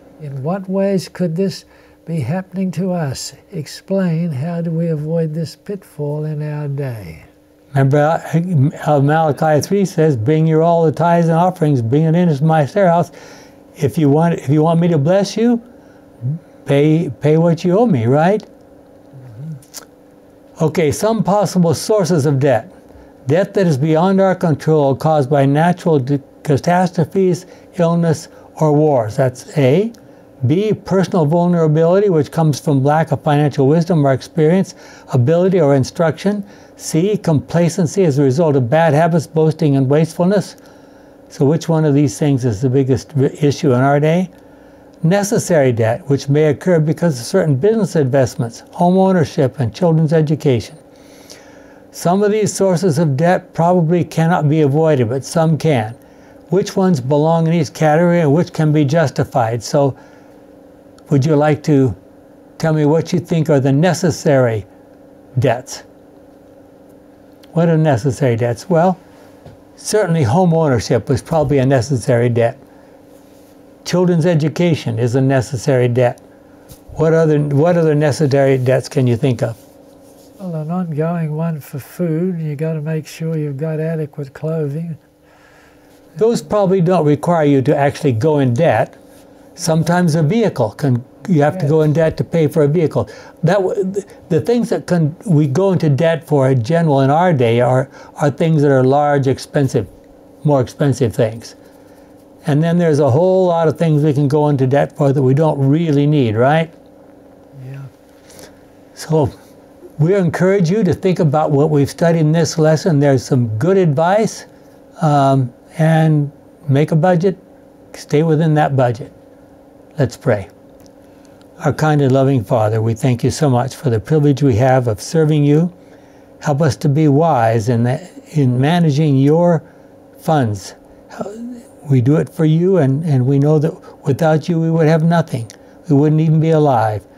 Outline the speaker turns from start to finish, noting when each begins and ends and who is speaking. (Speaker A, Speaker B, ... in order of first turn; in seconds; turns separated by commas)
Speaker A: 0.2-7.3, Speaker B: 7.7-13.1, Speaker B: 13.8-15.7, Speaker B: 16.6-18.5, Speaker B: 20.6-22.7, Speaker B: 23.3-40.6, Speaker B: 41.3-44.3, Speaker B: 45.0-50.8, Speaker B: 51.9-56.0, Speaker B: 56.5-60.0, Speaker B: 61.1-62.0, Speaker B: 62.6-64.7, Speaker B: 65.4-65.8, Speaker B: 67.5-69.0, Speaker B: 69.8-72.6, Speaker B: 73.8-76.2, Speaker B: 77.0-79.6, Speaker A: 80.4-85.0, Speaker B: 86.2-89.0, Speaker B: 89.6-99.9, Speaker B: 100.4-101.6, Speaker B: 102.4-106.7, Speaker A: 107.6-107.9, Speaker B: 109.0-109.3, Speaker B: 110.0-114.5, Speaker B: 115.0-117.4, Speaker B: 117.9-119.1, Speaker B: 120.0-120.5, Speaker B: 121.6-125.7, Speaker B: 126.4-129.7, Speaker B: 130.2-137.0